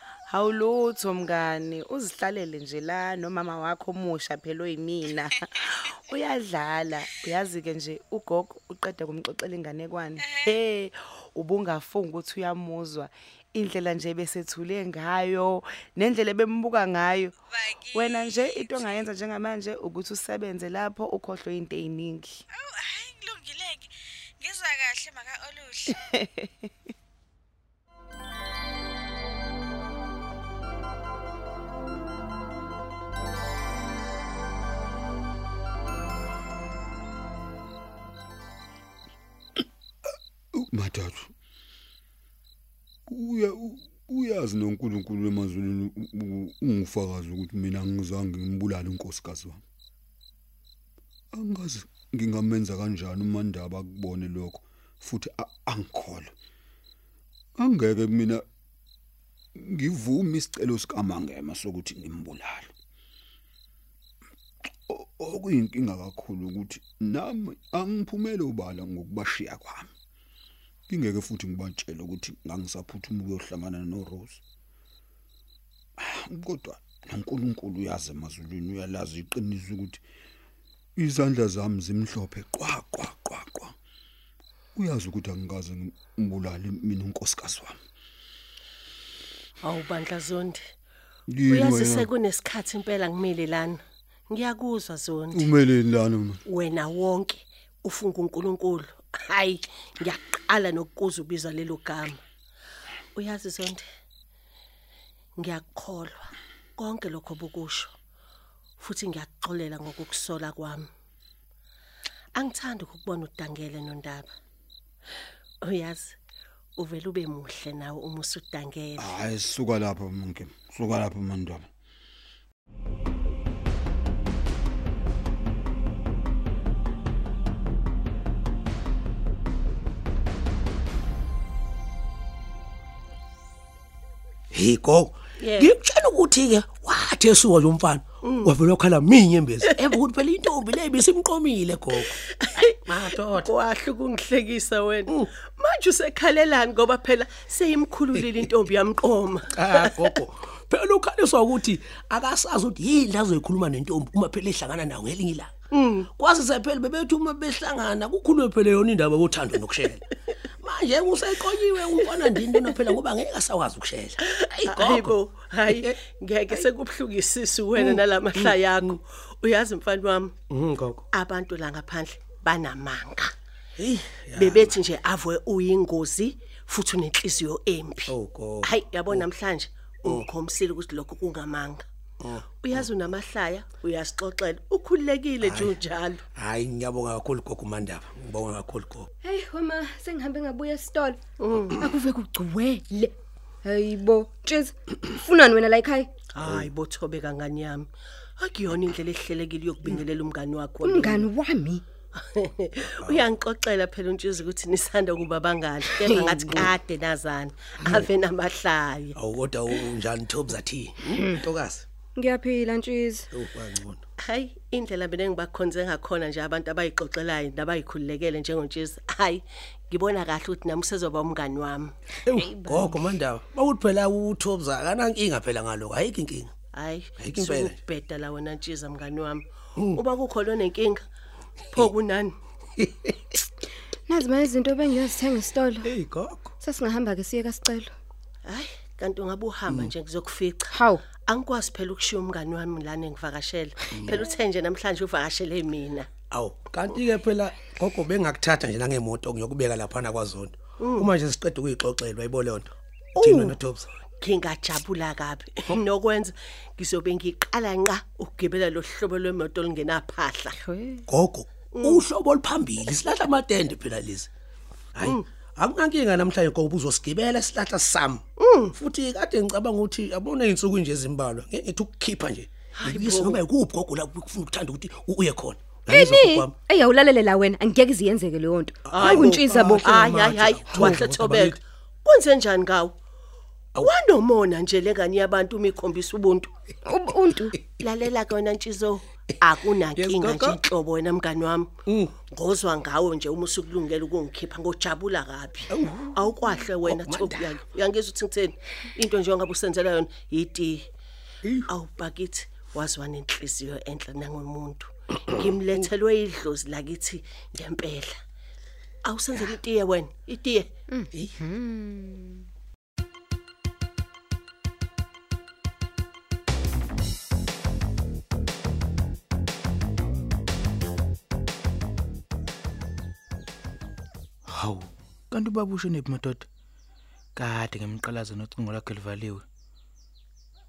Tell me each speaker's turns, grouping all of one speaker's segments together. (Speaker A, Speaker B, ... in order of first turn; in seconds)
Speaker A: 0.3-22.4, 25.9-26.5
Speaker B: 17.6-19.0, 22.6-23.9, 24.4-25.8
Speaker C: 40.5-41.3, 43.1-49.6, 51.3-56.3, 57.6-58.4, 59.6-62.7, 64.9-69.9, 70.9-74.4, 76.0-80.0, 81.0-83.7, 84.8-87.8, 91.3-92.1, 95.3-96.4, 119.0-121.3
Speaker D: 89.6-90.6, 91.5-93.8, 94.3-95.5, 96.5-102.2, 103.2-103.8, 105.4-107.9, 108.8-110.9, 112.4-114.3, 115.6-116.1, 116.8-119.1, 135.4-135.7, 138.2-138.5, 142.0-150.2, 155.7-156.1, 162.2-162.6, 164.2-170.3, 171.1-173.3, 174.4-181.8, 182.5-186.2, 191.4-191.8, 196.3-197.9, 198.4-201.3, 202.2-209.2, 214.2-221.9, 226.7-231.0, 231.7-232.3, 238.5-240.8, 241.3-246.1, 250.8-251.1, 254.2-260.6, 261.7-262.0, 268.4-268.7, 272.8-273.4, 278.9-282.9, 283.8-286.5, 287.8-300.9, 301.7-308.1, 309.1-310.7
Speaker E: 134.5-142.2, 142.8-143.5, 149.5-155.5, 156.1-165.1, 165.7-166.0, 167.8-168.9, 170.5-171.0, 173.8-174.8, 178.1-179.3, 182.2-182.8, 185.4-185.8, 186.3-189.1, 203.0-203.3, 207.8-208.1, 209.2-211.8, 213.3-214.0, 222.3-226.5, 227.2-227.8, 235.8-236.5, 243.9-244.2, 246.3-253.9, 261.1-264.3, 264.9-268.2, 268.7-276.5, 278.9-281.6, 289.9-290.6, 291.9-292.1, 295.7-297.6
Speaker F: 189.2-191.2, 191.8-193.1, 193.6-196.1, 200.8-201.8, 206.2-206.5, 211.1-211.4, 212.2-213.3, 222.3-223.0, 234.1-235.9, 236.6-237.9, 240.7-241.0, 253.2-253.6, 260.6-261.1, 275.9-280.0, 286.9-287.6, 310.9-312.2
Speaker G: 324.5-326.5, 327.4-329.4